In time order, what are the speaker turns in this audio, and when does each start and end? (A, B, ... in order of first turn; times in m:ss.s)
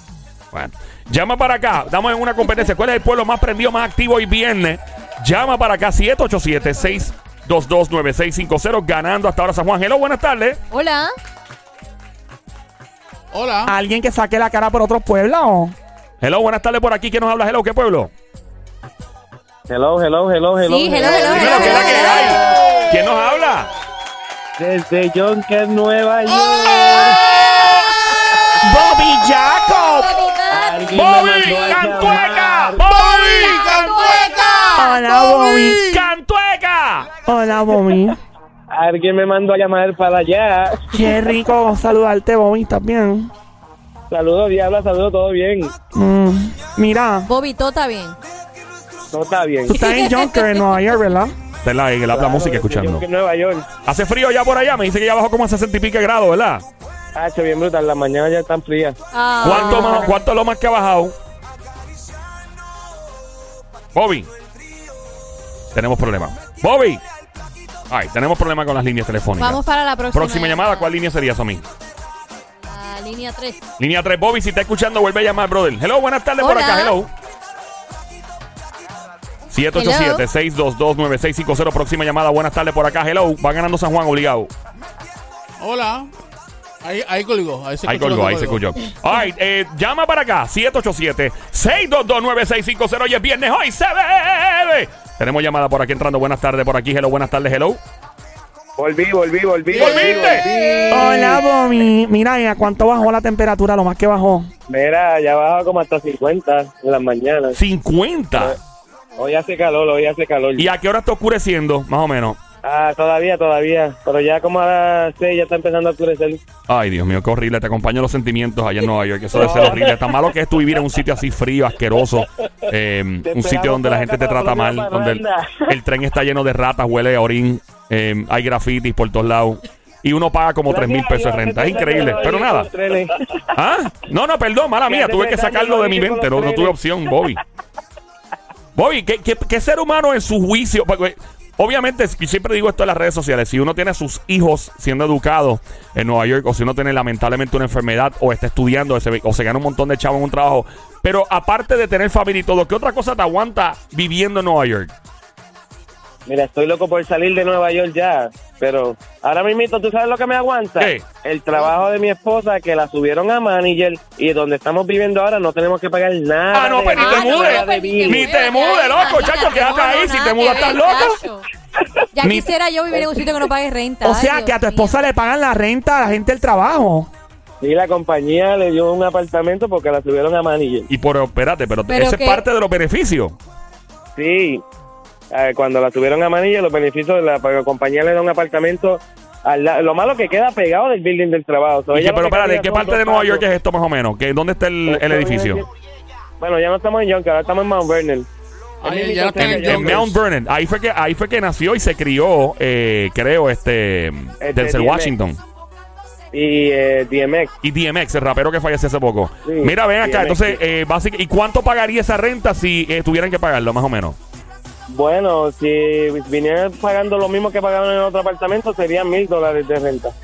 0:00.5-0:10.6 A
0:10.7-0:11.1 B
0:13.3-0:13.7 C
0:13.6-0:15.7 D
0:16.2-0:18.1 A
0:19.7-0:22.3 E
0:20.7-0:22.4 B
0:21.1-0:22.5 C
0:21.3-0:23.7 A
0:24.6-0:27.3 E
0:26.7-0:27.1 B
0:28.6-0:30.1 D
0:29.9-0:31.1 B
0:30.5-0:32.8 E
0:30.9-0:33.6 A
0:32.8-0:36.1 C
0:33.1-0:35.0 B
0:34.8-0:35.9 D
0:35.9-0:37.1 A
0:37.2-0:38.2 D
0:38.7-0:41.0 E
0:40.9-0:43.3 D
0:44.1-0:45.7 E
0:45.9-0:47.3 D
0:47.3-0:48.2 B
0:49.1-0:49.8 E
0:49.7-0:51.3 D
0:49.7-0:50.6 B
0:51.6-0:53.0 A
0:52.1-0:53.7 E
0:53.8-0:56.6 A
0:57.1-0:59.0 E
0:59.1-1:00.1 B
0:59.4-1:01.1 A
1:03.9-1:04.3 A
1:05.7-1:07.0 A
1:07.9-1:09.6 A
1:09.4-1:10.9 B
1:10.1-1:11.6 A
1:12.7-1:13.6 B
1:13.8-1:17.1 A
1:16.4-1:17.0 B
1:19.5-1:24.5 A
1:19.7-1:20.2 B
1:25.6-1:26.1 C
1:26.8-1:28.6 C
1:27.9-1:37.8 A
1:38.8-1:41.4 E
1:39.7-1:40.9 C
1:39.7-1:40.4 A
1:40.9-1:44.5 D
1:44.7-1:47.6 E
1:47.5-1:48.6 A
1:49.2-1:50.7 E
1:50.6-1:52.4 A
1:52.6-1:56.4 E
1:56.7-2:12.7 A
1:59.4-1:59.9 E
2:03.2-2:05.7 E
2:10.7-2:13.3 E
2:13.5-2:17.4 A
2:14.9-2:16.7 E
2:18.7-2:34.9 A
2:36.3-2:48.2 E
2:40.8-2:41.0 A
2:46.5-2:51.2 A
2:47.0-2:51.4 B
2:52.1-2:55.0 B
2:54.0-2:57.1 D
2:57.6-3:00.9 E
3:00.9-3:03.4 A
3:01.9-3:02.4 B
3:04.2-3:04.6 E
3:05.3-3:13.4 E
3:11.9-3:15.6 A
3:14.9-3:15.6 E
3:16.4-3:18.3 E
3:18.8-3:20.2 C
3:18.8-3:20.1 E
3:19.4-3:25.4 A
3:24.4-3:25.1 E
3:26.3-3:27.5 E
3:27.6-3:34.2 A
3:29.5-3:30.6 E
3:34.9-3:40.1 E